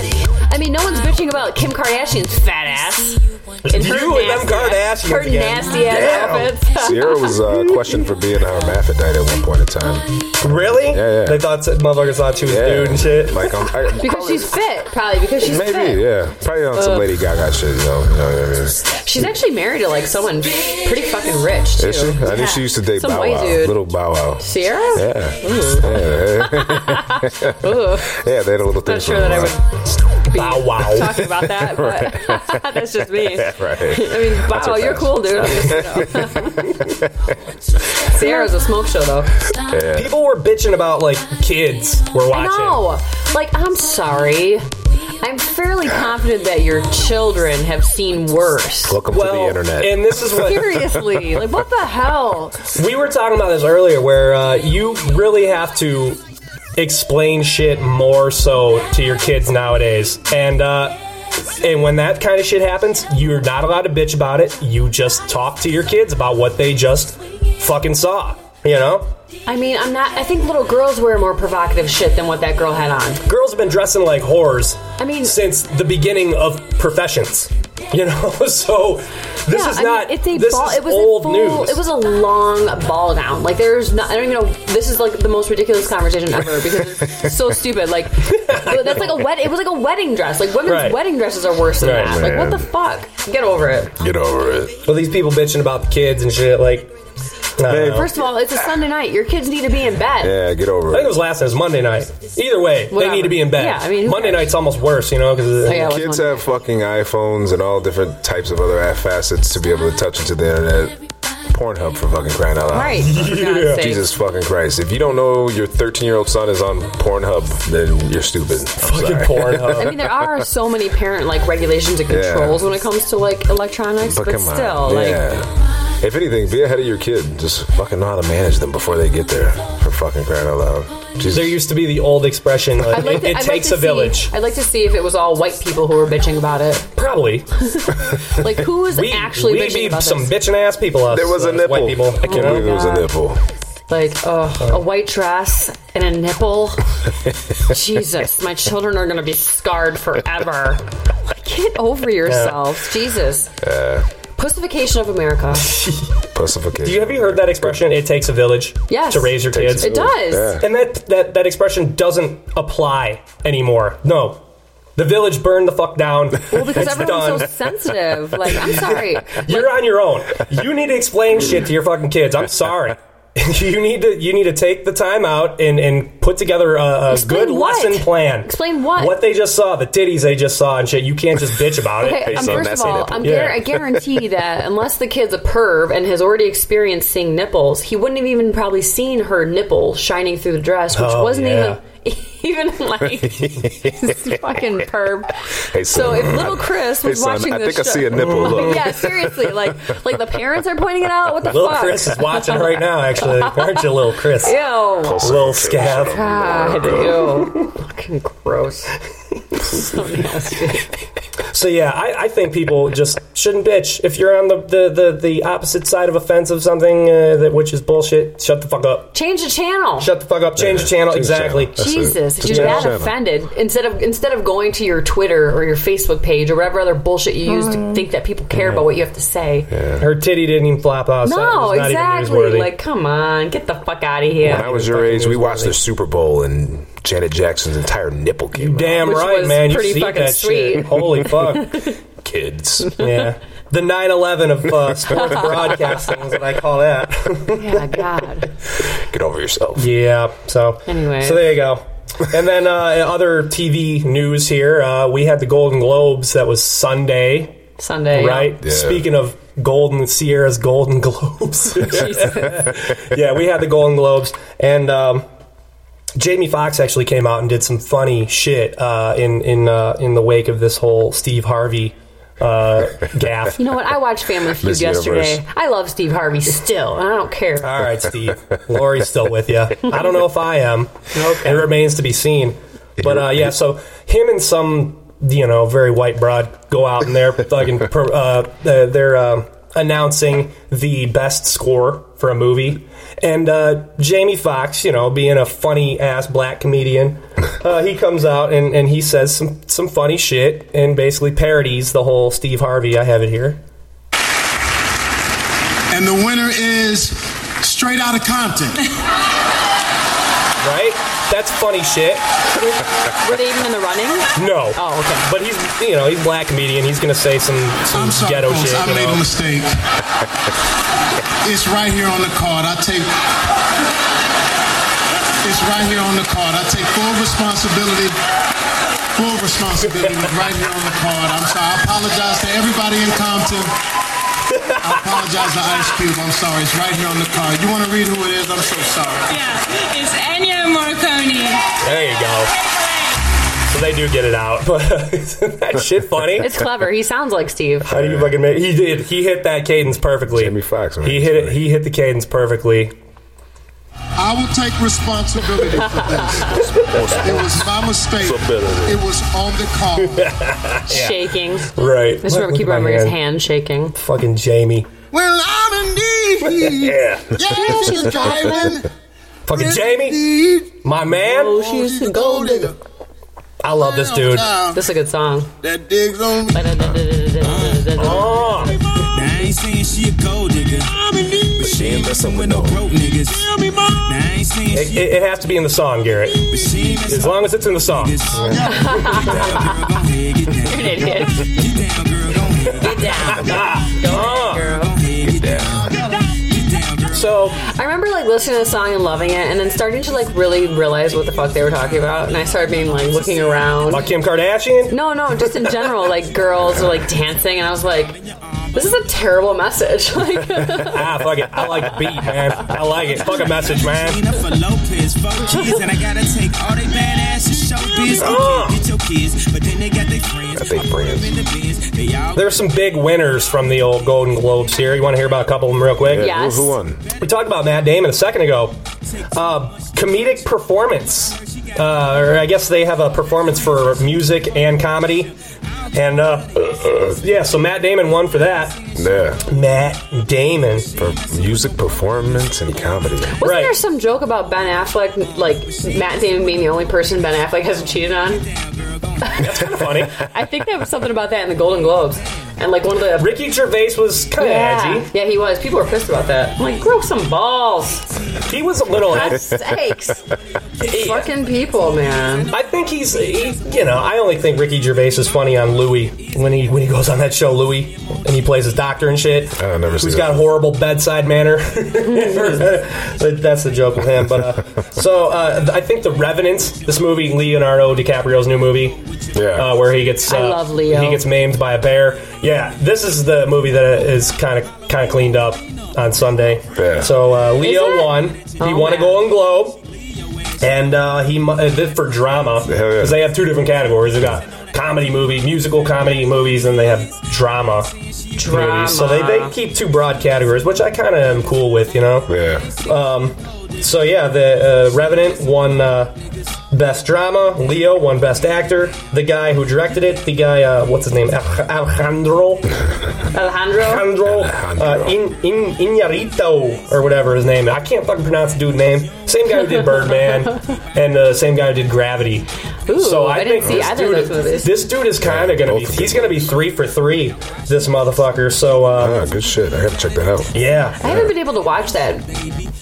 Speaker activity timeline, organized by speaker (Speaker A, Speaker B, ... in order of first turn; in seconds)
Speaker A: 0.3-7.3, 14.0-16.1, 16.7-17.1, 18.9-23.8, 24.4-28.1, 28.8-29.7, 30.2-36.9, 38.0-39.4, 42.3-44.7, 45.2-49.0, 50.3-52.6, 69.5-73.2, 75.0-75.4, 79.5-93.9, 97.8-100.4, 102.9-104.5, 105.6-106.4, 112.7-114.0, 119.7-125.3, 132.9-136.9, 137.6-140.4, 142.2-143.1, 143.9-146.8, 147.6-153.5, 154.4-155.8, 158.9-160.6, 166.5-169.7, 177.1-179.2, 182.0-203.9, 204.4-208.9, 209.7-210.9, 219.1-220.1, 221.8-229.7, 231.2-234.7, 239.0-241.9, 245.1-246.0, 247.5-248.5, 250.9-251.6, 257.8-258.5, 261.8-262.7, 273.6-277.8, 281.1-281.7, 312.5-315.2, 346.4-347.9, 360.9-363.9, 367.6-368.0, 371.1-372.7, 374.7-375.5, 376.5-378.6, 388.7-389.8, 390.6-391.5, 392.8-394.9, 397.6-404.1, 404.9-408.2, 408.7-411.1, 411.6-411.9, 426.1-426.8, 443.4-448.5, 449.2-453.4, 454.4-458.1, 459.0-460.2, 460.8-462.5, 472.1-472.6, 480.2-481.2, 487.6-489.2, 498.4-499.5, 513.3-514.1, 522.9-524.9, 531.0-532.4
Speaker B: 3.6-6.5, 10.4-13.5, 30.3-31.2, 39.9-42.9, 49.1-50.8, 52.7-56.2, 56.8-61.0, 61.5-69.1, 73.2-81.8, 88.2-89.1, 90.7-91.0, 91.8-92.2, 94.8-96.9, 97.6-98.1, 100.9-105.9, 113.0-113.8, 118.8-120.0, 131.3-134.3, 136.9-137.5, 138.9-142.6, 152.3-152.6, 155.7-156.1, 156.8-160.0, 160.6-164.4, 164.9-167.6, 168.6-183.6, 190.9-191.8, 198.1-198.7, 201.4-204.6, 205.2-206.2, 211.5-219.1, 220.0-221.8, 222.4-222.9, 230.0-232.7, 234.4-235.7, 238.6-241.8, 243.0-248.0, 249.8-257.6, 258.1-265.2, 266.1-273.6, 277.6-303.6, 310.6-312.2, 314.3-319.2, 341.8-342.5, 343.7-346.5, 347.9-352.9, 360.1-363.1, 363.9-364.9, 366.5-367.3, 369.5-370.3, 370.8-371.6, 373.6-374.5, 378.0-378.8, 384.7-389.4, 393.2-394.7, 397.1-397.6, 403.9-404.9, 410.8-414.2, 418.2-418.8, 422.3-426.3, 427.2-428.8, 429.3-435.3, 435.9-438.9, 439.4-440.9, 443.4-443.8, 449.4-450.2, 453.2-455.1, 458.5-459.5, 460.8-461.3, 462.5-479.0, 479.5-489.8, 490.6-497.9, 498.4-506.1, 506.7-512.8, 513.8-529.2, 530.5-531.0
Speaker C: 6.7-11.5, 12.4-14.5, 15.4-18.9, 21.8-29.6, 31.2-32.6, 33.2-37.1, 39.6-40.1, 48.8-50.5, 92.0-92.7, 94.0-94.8, 97.7-98.2, 100.2-101.2, 105.7-120.4, 122.1-122.7, 124.0-131.6, 141.1-143.4, 153.6-154.1, 156.3-157.8, 159.5-160.6, 182.1-184.0, 193.2-194.2, 195.7-199.8, 205.0-207.3, 220.6-223.1, 229.7-230.1, 234.4-239.2, 242.2-242.9, 248.9-249.9, 258.6-259.0, 274.6-275.4, 283.0-283.4, 347.9-348.3, 350.3-351.6, 381.6-382.8, 395.2-395.9, 420.5-421.4, 426.0-427.0, 438.9-439.4, 440.9-443.4, 469.6-470.5, 479.3-479.8, 486.7-487.1, 492.6-493.3, 502.3-502.7, 514.2-515.2, 525.2-526.5, 529.0-531.3
Speaker D: 305.9-308.8, 317.9-319.7, 321.4-323.1, 325.4-328.1, 329.2-333.7, 334.8-339.4, 354.2-360.3, 365.1-368.9, 369.5-372.8, 373.8-374.8, 375.6-376.7, 378.6-379.0, 380.9-382.1, 383.2-384.1, 386.5-386.8, 388.4-388.9, 395.7-396.3
Speaker E: 339.4-341.6
Speaker F: 377.4-378.0, 379.1-381.0, 381.6-385.1, 386.5-393.6, 394.7-397.5, 413.6-422.5, 448.4-449.4